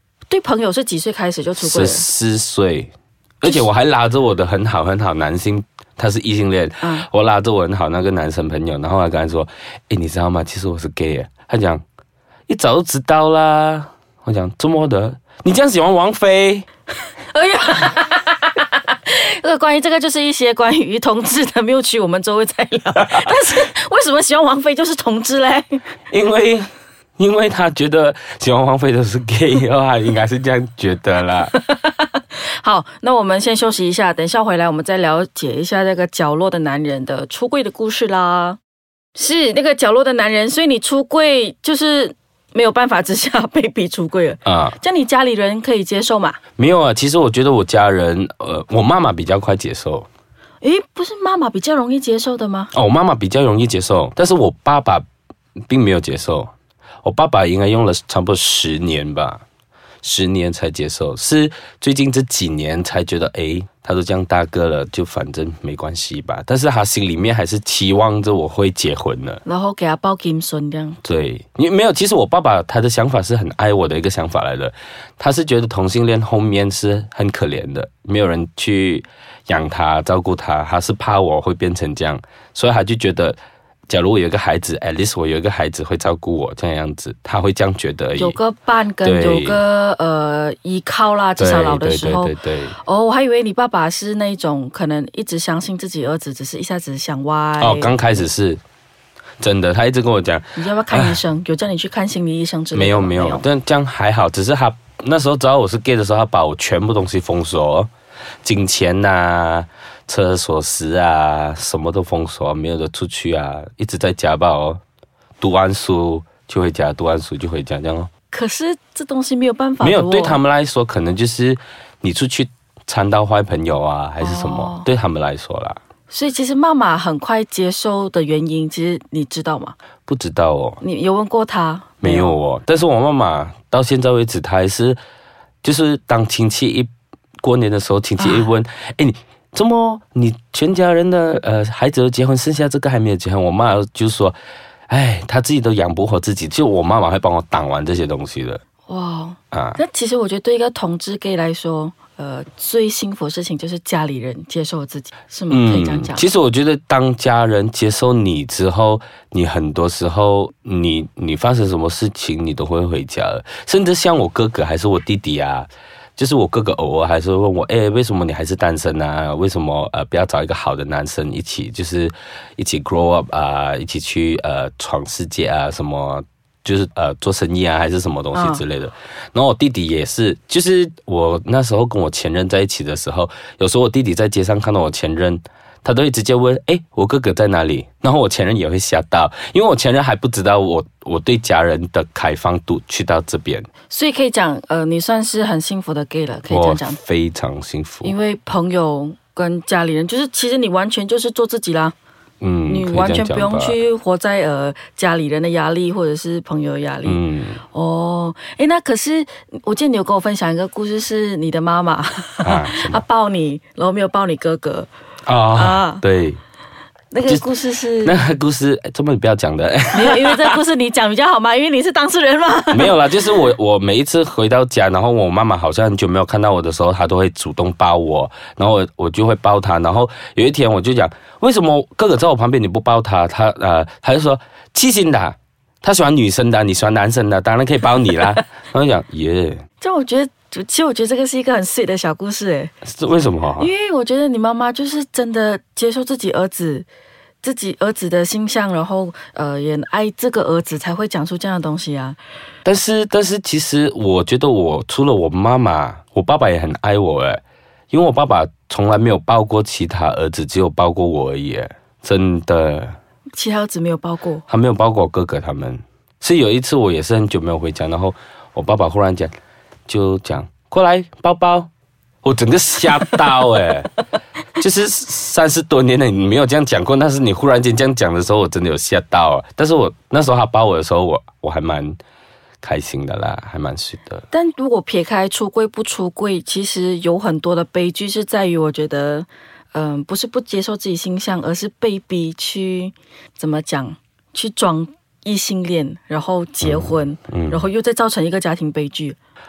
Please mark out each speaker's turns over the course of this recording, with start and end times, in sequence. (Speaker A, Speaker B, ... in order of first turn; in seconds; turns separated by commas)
Speaker A: 0.3-2.1, Speaker B: 1.6-11.8, Speaker B: 12.5-16.6, Speaker A: 17.3-25.8, Speaker B: 26.1-31.5, Speaker A: 31.5-38.6, Speaker A: 39.1-46.4, Speaker B: 44.4-44.8, Speaker B: 46.6-50.1, Speaker A: 50.6-52.7, Speaker B: 52.7-55.0, Speaker B: 55.7-56.5, Speaker B: 57.0-59.4, Speaker B: 60.0-69.4, Speaker A: 69.4-71.0, Speaker B: 71.0-83.4, Speaker B: 83.9-88.4, Speaker A: 88.2-98.2, Speaker B: 89.0-89.6, Speaker B: 91.4-92.8, Speaker B: 97.6-98.6, Speaker B: 99.4-101.2, Speaker A: 100.5-103.5, Speaker B: 102.7-107.9, Speaker B: 108.4-114.8, Speaker B: 115.4-118.1, Speaker A: 118.3-120.4, Speaker B: 119.8-125.8, Speaker A: 124.2-124.9, Speaker A: 126.1-129.8, Speaker B: 130.1-130.8, Speaker A: 130.8-132.3, Speaker B: 132.0-135.0, Speaker B: 135.6-136.9, Speaker B: 137.4-144.4, Speaker A: 138.2-138.5, Speaker B: 144.9-148.6, Speaker A: 148.9-156.2, Speaker B: 149.5-149.8, Speaker B: 155.5-193.7, Speaker A: 178.3-178.6, Speaker A: 193.9-197.0, Speaker B: 196.5-198.1, Speaker A: 198.0-201.9, Speaker B: 202.4-203.8, Speaker A: 202.7-207.2, Speaker B: 207.0-207.6, Speaker A: 207.7-214.9, Speaker B: 212.4-213.0, Speaker B: 215.3-216.4, Speaker A: 215.5-216.0, Speaker A: 217.1-218.2, Speaker B: 218.0-220.6, Speaker A: 219.9-223.0, Speaker B: 222.7-239.6, Speaker A: 239.8-242.7, Speaker B: 242.8-243.7, Speaker A: 243.6-246.9, Speaker A: 247.4-252.2, Speaker B: 252.6-262.9, Speaker A: 263.4-264.4, Speaker B: 264.5-269.3, Speaker B: 269.9-271.7, Speaker B: 272.2-273.9, Speaker B: 274.6-282.0, Speaker B: 282.6-284.2, Speaker A: 284.3-299.1, Speaker B: 296.6-297.6